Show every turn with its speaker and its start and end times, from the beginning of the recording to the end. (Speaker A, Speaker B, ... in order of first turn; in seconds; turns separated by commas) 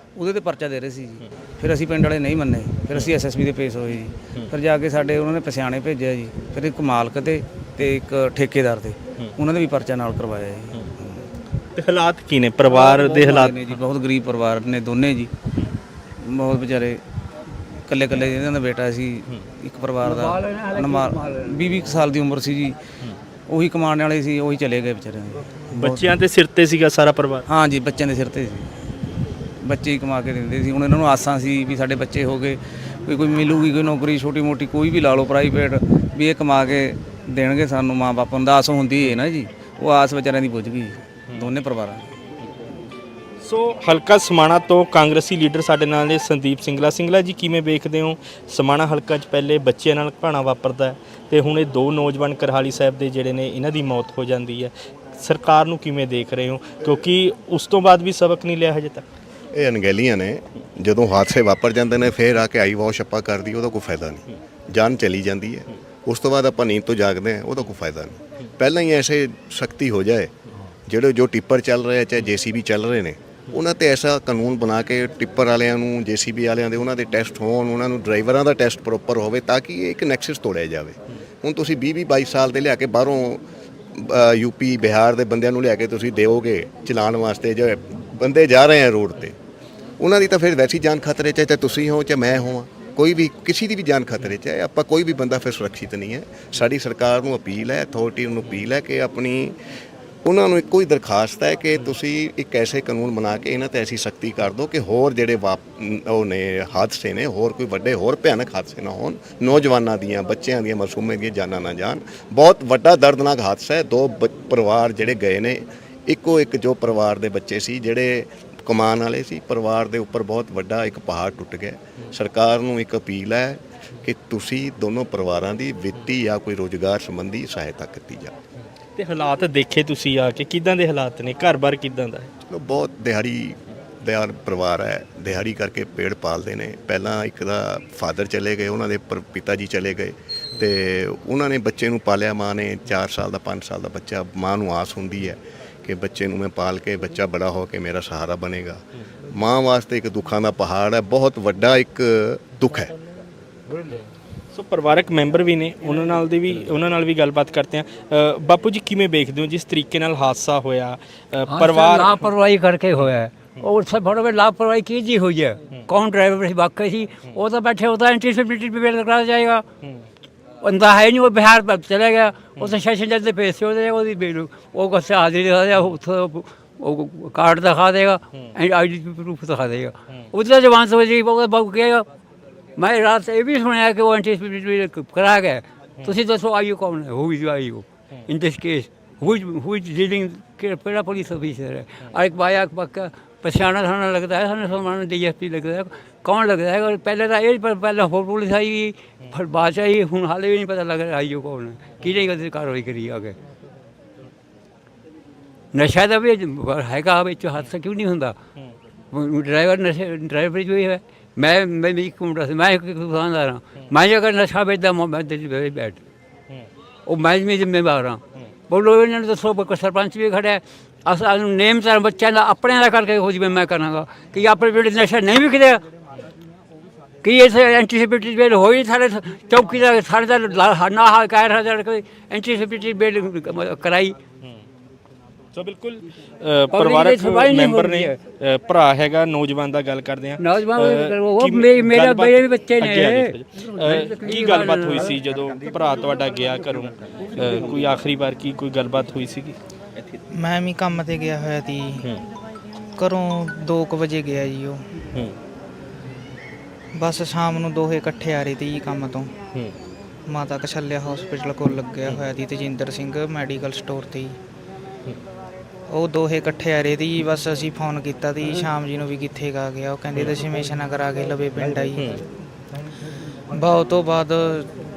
Speaker A: 0.2-11.2, Speaker B: 11.8-13.7, Speaker A: 12.7-15.3, Speaker A: 16.2-17.0, Speaker A: 17.9-22.8, Speaker A: 23.5-26.0, Speaker B: 25.8-27.5, Speaker A: 27.5-28.7, Speaker A: 29.6-42.1, Speaker B: 43.4-59.1, Speaker C: 59.5-70.3, Speaker C: 70.9-83.4, Speaker C: 83.9-89.4, Speaker C: 90.0-99.6, Speaker C: 100.2-128.3, Speaker B: 129.0-132.3, Speaker C: 132.5-152.9, Speaker B: 154.5-162.2, Speaker D: 161.5-169.7, Speaker D: 170.6-182.1, Speaker D: 182.8-203.4, Speaker D: 205.7-208.4, Speaker D: 209.1-216.0, Speaker D: 217.1-225.8, Speaker D: 227.2-234.2, Speaker B: 235.5-249.6, Speaker D: 236.7-238.2, Speaker D: 240.4-245.2, Speaker E: 250.3-252.1, Speaker E: 253.0-254.8, Speaker E: 256.9-259.4, Speaker E: 260.3-264.4, Speaker E: 265.9-272.2, Speaker E: 273.5-274.7